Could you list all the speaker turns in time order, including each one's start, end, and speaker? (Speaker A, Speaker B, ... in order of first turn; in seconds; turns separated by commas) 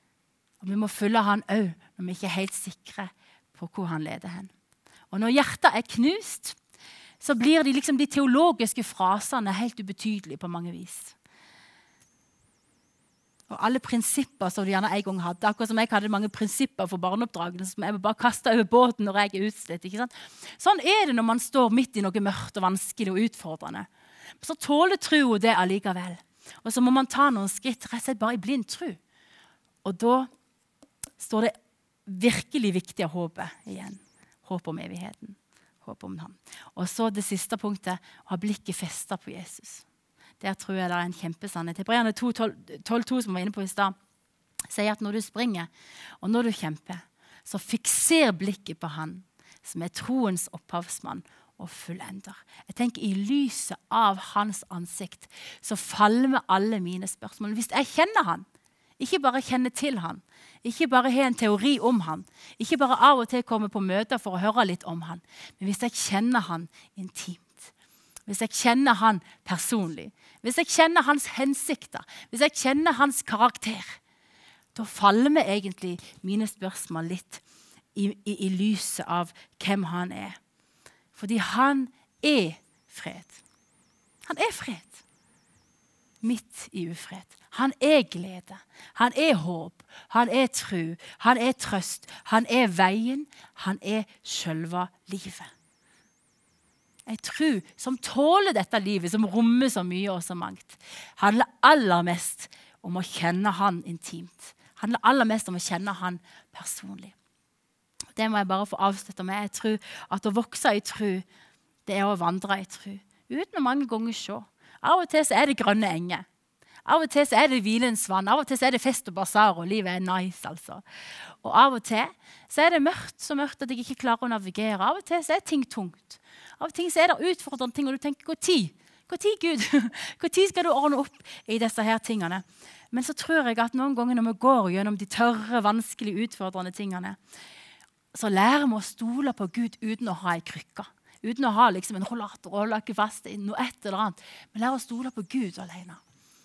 Speaker A: 0.6-4.5, Speaker A: 5.1-6.6, Speaker A: 7.2-11.2, Speaker A: 13.5-23.9, Speaker A: 24.4-29.0, Speaker A: 29.8-30.3, Speaker A: 31.2-31.5, Speaker A: 32.0-39.8, Speaker A: 40.4-43.9, Speaker A: 44.7-45.7, Speaker A: 46.2-58.4, Speaker A: 59.0-67.7, Speaker A: 68.3-74.0, Speaker A: 74.7-77.4, Speaker A: 77.9-80.4, Speaker A: 81.1-83.4, Speaker A: 84.2-85.0, Speaker A: 86.2-95.5, Speaker A: 97.1-107.1, Speaker A: 108.2-111.2, Speaker A: 111.8-116.2, Speaker A: 116.8-120.8, Speaker A: 121.4-137.2, Speaker A: 138.1-146.0